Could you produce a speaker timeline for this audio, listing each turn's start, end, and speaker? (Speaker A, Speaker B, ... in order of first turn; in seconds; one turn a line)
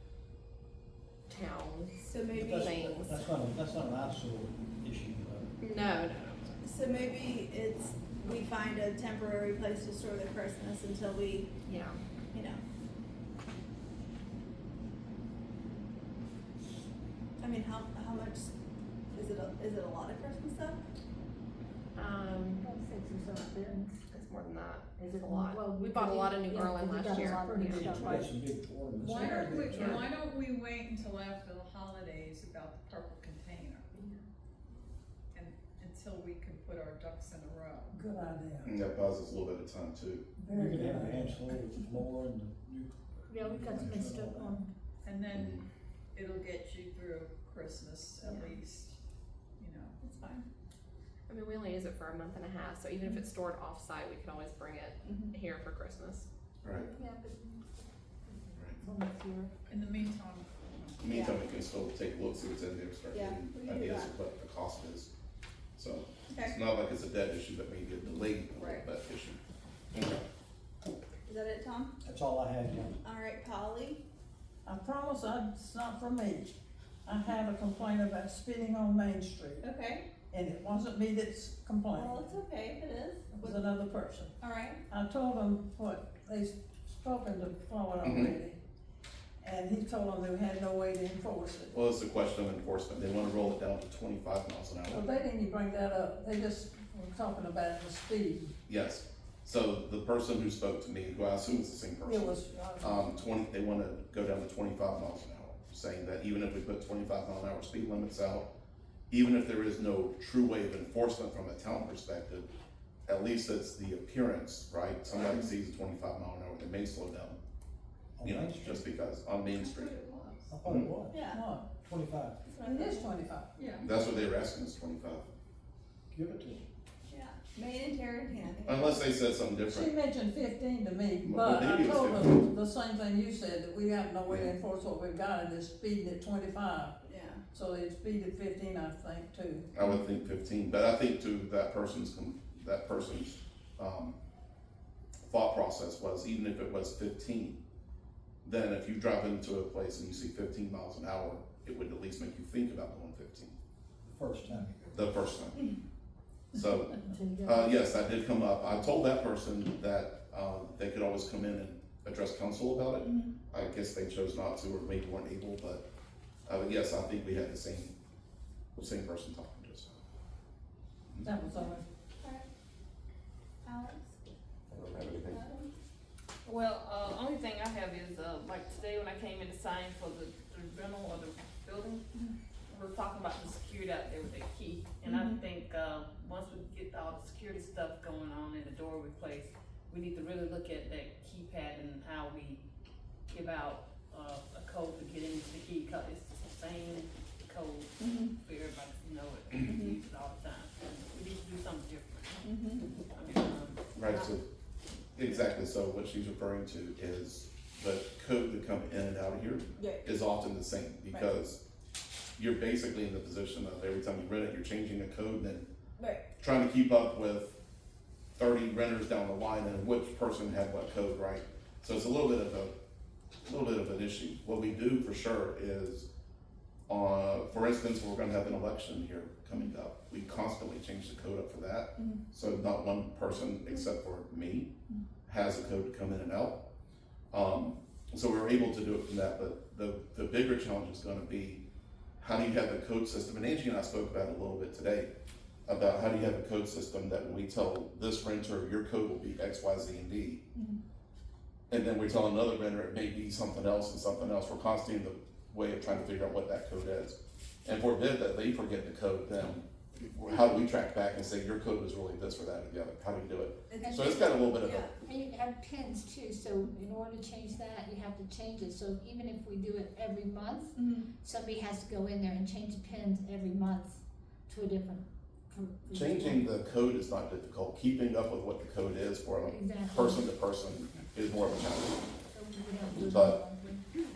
Speaker A: 1.3-3.2
Speaker B: 2.1-2.9
Speaker C: 2.4-5.5
Speaker A: 5.6-7.2
Speaker B: 6.6-11.6
Speaker A: 11.6-12.0
Speaker B: 12.3-12.6
Speaker B: 17.4-18.5
Speaker B: 19.1-20.8
Speaker A: 21.9-22.6
Speaker D: 22.6-24.0
Speaker A: 24.1-27.9
Speaker D: 25.0-28.3
Speaker C: 27.7-30.0
Speaker E: 27.9-28.3
Speaker F: 29.0-33.9
Speaker A: 29.3-30.0
Speaker F: 35.3-38.0
Speaker E: 37.9-38.7
Speaker G: 38.6-40.2
Speaker E: 40.4-41.5
Speaker C: 40.5-44.6
Speaker D: 43.3-44.7
Speaker F: 45.0-45.6
Speaker G: 45.3-45.6
Speaker F: 46.1-49.0
Speaker A: 48.2-48.6
Speaker F: 49.6-50.0
Speaker B: 50.0-50.5
Speaker A: 51.3-56.2
Speaker B: 55.0-55.3
Speaker G: 56.6-56.9
Speaker D: 56.7-59.5
Speaker F: 59.7-61.0
Speaker G: 61.0-65.1
Speaker B: 61.0-61.4
Speaker B: 63.1-64.1
Speaker G: 65.8-69.4
Speaker B: 68.5-68.8
Speaker G: 69.9-70.2
Speaker B: 71.2-71.9
Speaker C: 72.0-72.9
Speaker B: 73.0-74.0
Speaker E: 74.6-79.6
Speaker B: 79.6-80.1
Speaker E: 80.3-82.2
Speaker B: 81.9-83.6
Speaker E: 83.4-84.3
Speaker B: 84.4-84.8
Speaker E: 84.9-88.6
Speaker G: 88.0-88.3
Speaker E: 89.4-91.7
Speaker G: 91.7-95.0
Speaker E: 94.9-98.5
Speaker G: 98.7-108.5
Speaker E: 102.0-103.1
Speaker G: 109.1-112.5
Speaker G: 113.0-117.4
Speaker C: 118.2-118.8
Speaker G: 118.2-120.0
Speaker B: 119.5-120.5
Speaker C: 120.5-121.2
Speaker G: 120.6-120.9
Speaker B: 121.1-121.4
Speaker E: 121.3-121.7
Speaker C: 121.8-122.4
Speaker B: 122.4-123.2
Speaker E: 122.6-123.7
Speaker F: 123.5-123.8
Speaker G: 123.8-125.3
Speaker C: 126.1-126.6
Speaker B: 127.1-129.1
Speaker G: 128.6-129.9
Speaker E: 129.7-136.9
Speaker G: 131.2-132.4
Speaker G: 134.3-134.5
Speaker B: 137.0-137.4
Speaker E: 137.5-139.7
Speaker G: 139.7-144.1
Speaker G: 145.2-147.6
Speaker G: 148.4-153.5
Speaker C: 154.1-154.9
Speaker G: 154.9-155.6
Speaker G: 156.5-165.8
Speaker D: 157.0-157.8
Speaker B: 163.0-163.3
Speaker G: 166.4-167.9
Speaker G: 168.8-169.9
Speaker E: 171.2-171.8
Speaker B: 172.2-172.4
Speaker B: 173.6-174.2
Speaker G: 174.8-175.3
Speaker B: 175.0-175.7
Speaker H: 176.4-182.1
Speaker H: 182.7-192.6
Speaker B: 185.0-185.4
Speaker H: 193.3-202.4
Speaker B: 198.0-198.3
Speaker B: 199.6-200.0
Speaker B: 202.4-202.9
Speaker H: 203.1-204.3
Speaker G: 203.9-204.4
Speaker G: 205.1-211.6
Speaker B: 209.8-210.0
Speaker B: 211.1-211.3
Speaker G: 212.4-215.7
Speaker B: 216.0-216.3
Speaker G: 216.4-217.6
Speaker G: 218.3-222.7
Speaker G: 223.4-226.1
Speaker G: 226.9-234.7
Speaker G: 235.2-236.6
Speaker G: 237.3-241.6
Speaker G: 242.2-245.1
Speaker G: 245.7-250.4
Speaker G: 251.7-264.9
Speaker B: 263.7-264.9
Speaker D: 263.8-276.5
Speaker G: 275.9-282.0
Speaker D: 279.4-280.2
Speaker D: 282.3-283.8
Speaker G: 283.1-283.4